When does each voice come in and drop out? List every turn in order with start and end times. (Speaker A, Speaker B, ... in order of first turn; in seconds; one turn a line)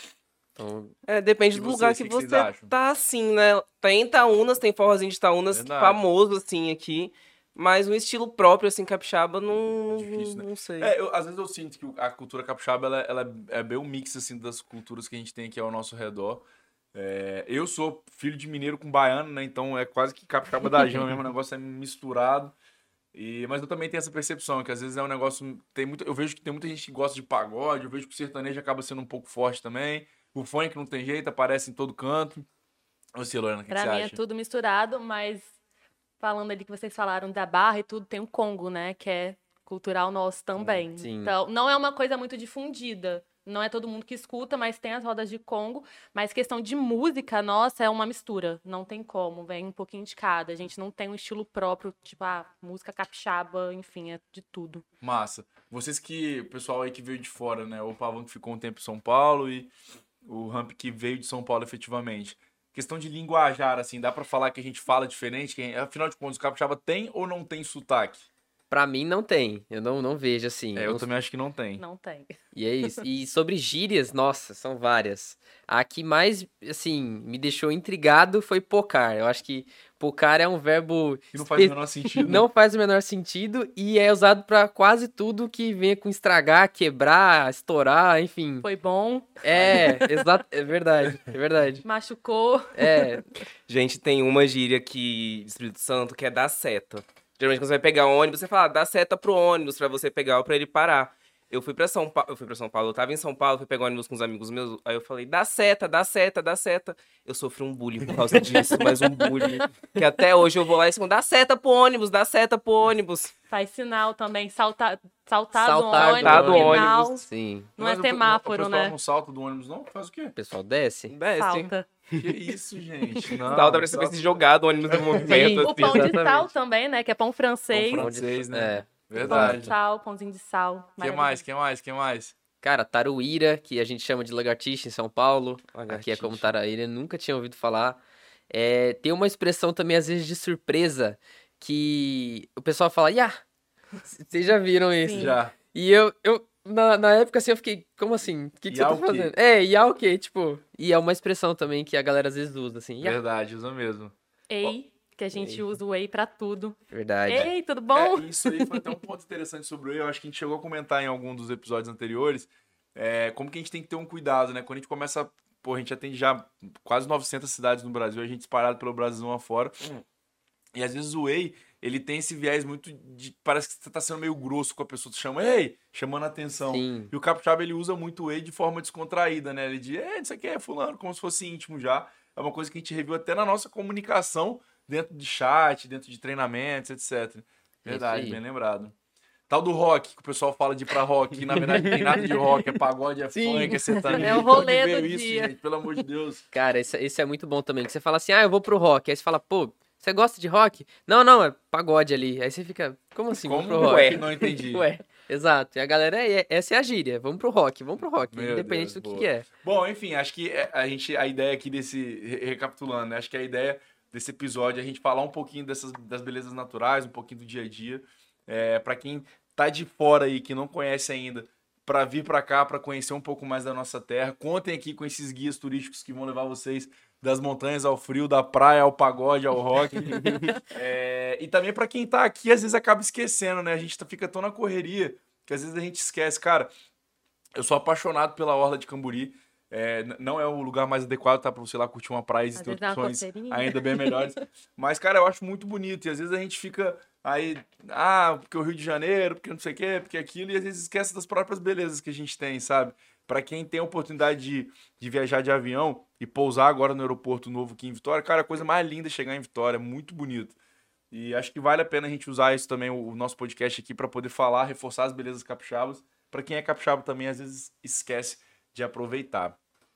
Speaker A: 0.6-0.9
Speaker B: 1.1-10.9
Speaker C: 1.5-2.7
Speaker C: 5.5-6.1
Speaker C: 9.9-22.5
Speaker C: 23.1-32.5
Speaker C: 33.1-34.2
Speaker D: 33.7-35.5
Speaker D: 36.2-54.8
Speaker A: 40.6-41.4
Speaker C: 55.0-59.7
Speaker C: 60.2-68.3
Speaker A: 68.7-71.1
Speaker C: 70.8-71.8
Speaker D: 71.8-72.3
Speaker A: 72.5-88.7
Speaker C: 81.3-82.5
Speaker D: 88.6-89.4
Speaker A: 89.4-91.8
Speaker C: 89.5-90.0
Speaker D: 91.8-93.1
Speaker A: 92.7-93.2
Speaker B: 93.7-113.3
Speaker C: 108.1-109.6
Speaker D: 113.5-117.2
Speaker A: 115.5-117.7
Speaker B: 115.9-117.1
Speaker C: 117.8-120.3
Speaker D: 117.8-118.9
Speaker A: 120.4-121.1
Speaker B: 121.1-122.3
Speaker D: 121.4-121.9
Speaker C: 122.2-125.7
Speaker B: 123.5-126.5
Speaker A: 125.3-126.1
Speaker D: 125.6-128.1
Speaker C: 127.7-129.7
Speaker A: 128.0-129.7
Speaker D: 129.3-131.4
Speaker C: 131.0-132.3
Speaker A: 132.6-138.0
Speaker B: 135.7-136.5
Speaker A: 138.5-143.4
Speaker A: 144.1-153.2
Speaker D: 145.0-145.4
Speaker C: 145.1-145.5
Speaker C: 148.7-149.3
Speaker C: 153.0-154.1
Speaker D: 154.5-158.8
Speaker A: 155.3-155.6
Speaker A: 156.9-157.5
Speaker C: 157.9-169.8
Speaker C: 170.8-188.9
Speaker A: 176.7-177.1
Speaker A: 187.8-188.4
Speaker C: 189.5-196.4
Speaker A: 191.9-192.2
Speaker A: 193.4-194.4
Speaker D: 194.1-195.5
Speaker A: 196.5-209.5
Speaker C: 203.4-204.9
Speaker B: 203.8-204.3
Speaker C: 208.3-236.7
Speaker B: 230.2-230.5
Speaker C: 237.6-260.6
Speaker D: 242.6-244.3
Speaker C: 261.1-269.6